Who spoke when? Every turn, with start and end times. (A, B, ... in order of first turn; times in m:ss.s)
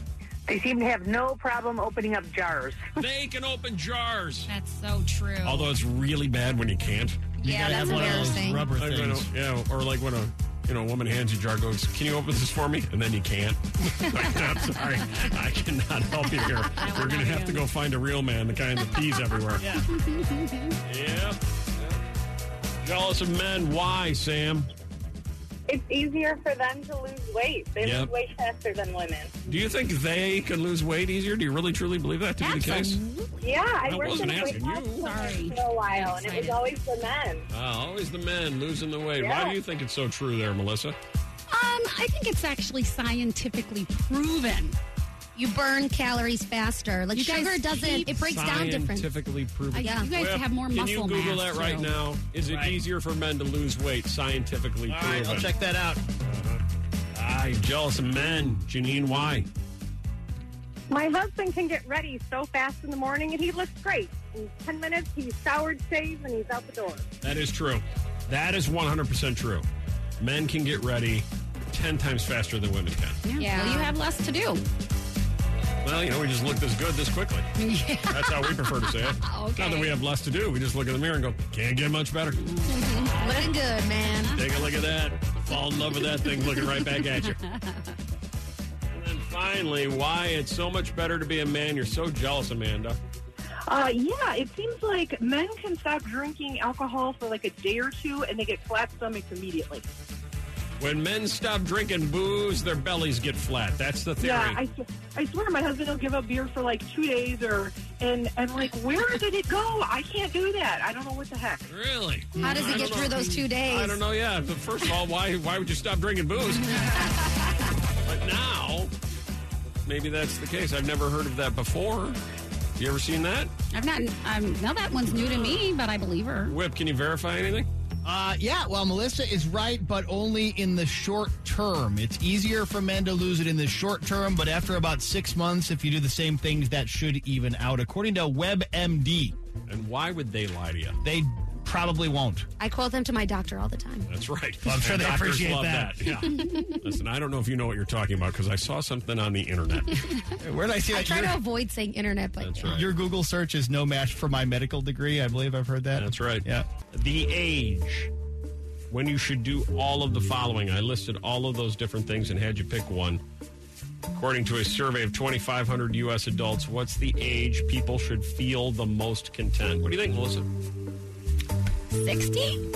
0:00.5-0:02.8 A
0:03.0-0:04.5 B
0:04.5-0:05.7 C
0:05.4-0:07.3 B
0:07.4-0:08.7 D
0:07.4-0:09.3 E
0:07.6-0:08.3 C
0:08.0-0:19.6 B
0:16.7-0:17.6 C
0:19.6-0:19.9 E
0:20.2-0:20.7 C
0:20.9-0:22.0 B
0:22.8-0:24.7 B
0:25.7-0:29.3 F
0:27.8-0:28.1 B
0:29.5-0:33.0 B
0:32.4-0:33.4 C
0:33.4-0:37.4 F
0:33.8-0:35.2 B
0:34.0-0:36.6 C
0:37.5-0:41.0 B
0:39.2-0:39.6 F
0:41.5-0:44.8 C
0:45.4-0:49.1 D
0:47.1-0:48.5 C
0:48.0-0:55.5 B
0:49.7-0:51.9 C
0:49.8-0:50.1 D
0:52.5-0:52.8 E
0:54.9-0:56.0 E
0:56.2-0:56.6 B
0:57.1-0:59.5 B
1:00.9-1:07.1 F
1:07.2-1:09.7 B
1:10.2-1:13.2 B
1:13.2-1:14.6 C
1:13.4-1:14.0 D
1:15.8-1:17.5 B
1:17.6-1:18.9 C
1:18.1-1:22.4 B
1:19.3-1:19.9 D
1:22.4-1:23.4 C
1:22.7-1:24.4 D
1:24.3-1:27.4 B
1:26.6-1:27.9 C
1:28.9-1:33.0 B
1:36.9-1:38.0 G
1:38.7-1:39.5 G
1:40.8-1:44.6 B
1:44.2-1:51.6 G
1:51.7-1:57.1 B
1:52.4-1:54.0 D
1:52.4-1:53.4 C
1:56.7-1:57.1 C
1:58.0-1:58.9 B
1:59.9-2:02.2 B
2:02.8-2:03.5 B
2:03.7-2:06.6 C
2:05.1-2:05.6 B
2:06.5-2:07.7 B
2:08.0-2:19.4 E
2:19.7-2:21.0 B
2:21.0-2:22.5 E
2:22.6-2:24.1 D
2:24.1-2:30.1 B
2:24.6-2:26.0 E
2:26.3-2:26.8 D
2:30.4-2:31.4 E
2:30.9-2:32.8 D
2:32.4-2:32.9 B
2:32.6-2:36.7 E
2:36.0-2:38.1 B
2:38.9-2:43.2 B
2:44.1-2:50.5 B
2:52.0-2:52.6 C